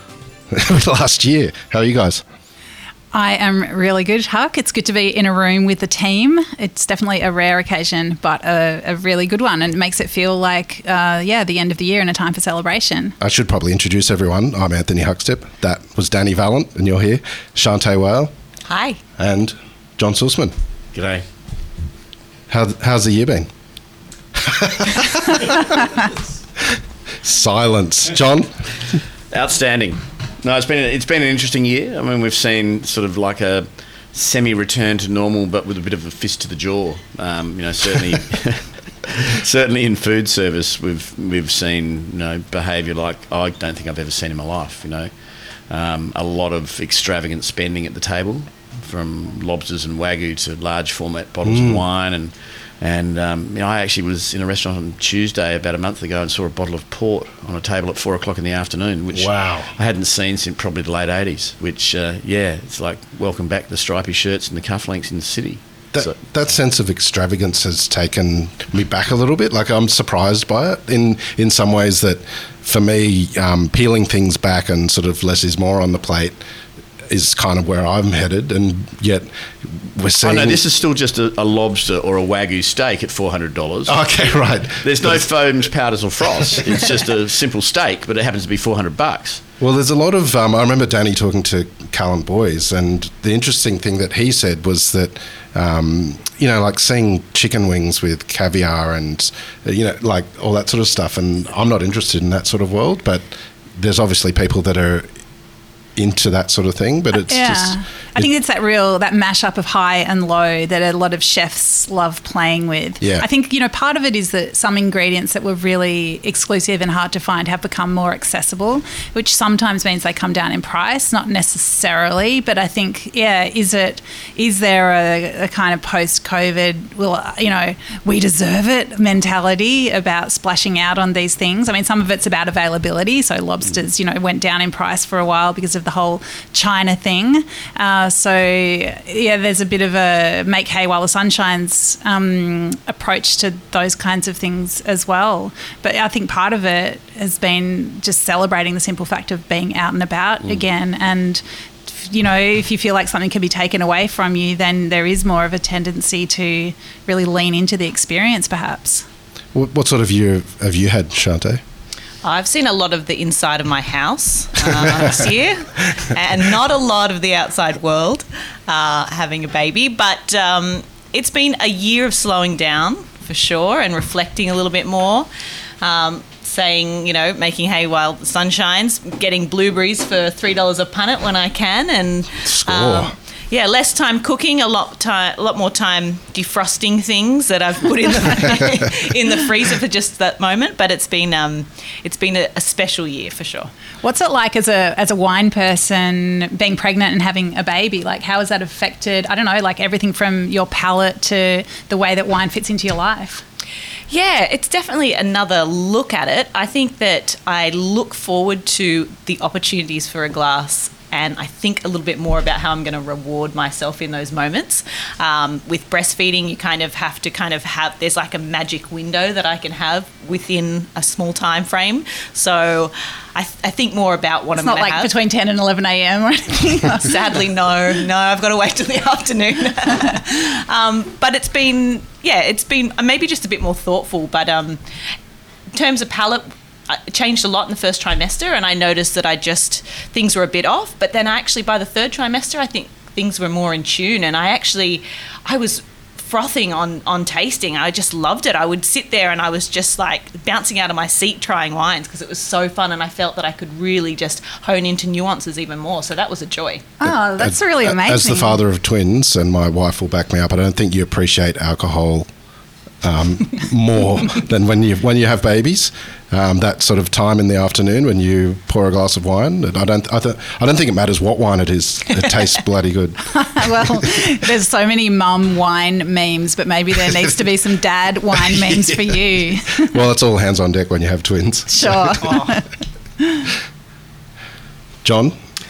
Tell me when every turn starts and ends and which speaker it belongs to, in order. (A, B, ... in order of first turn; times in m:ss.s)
0:00.5-0:02.2 A
0:03.1-0:13.2 B
0:13.2-0:18.3 A
0:18.7-0:19.0 C
0:19.2-0:20.5 A
0:20.9-0:21.2 D
0:22.5-0:23.5 A
0:24.4-0:25.9 A
0:27.2-0:29.0 A
0:29.3-0:45.1 D
0:45.7-1:06.2 D
0:51.4-0:51.8 A
0:59.1-0:59.7 A
1:05.9-1:16.4 A
1:17.1-1:20.6 A
1:20.2-1:29.4 D
1:23.9-1:25.3 A
1:29.6-1:45.1 A
1:46.0-1:48.3 A
1:47.1-2:39.0 B
1:53.0-1:53.3 A
2:39.5-2:41.6 A
2:42.2-2:55.3 C
2:55.8-3:13.7 C
3:02.4-3:03.1 A
3:14.0-3:23.4 B
3:24.1-3:45.1 C
3:44.5-3:47.2 B
3:47.0-3:54.8 C
3:55.7-4:16.8 C
4:17.0-4:18.6 B
4:17.0-4:22.3 A
4:23.0-4:34.1 A
4:33.4-4:40.0 B
4:39.8-4:42.4 A
4:41.7-4:42.7 B
4:43.2-4:43.5 B
4:45.0-4:45.4 A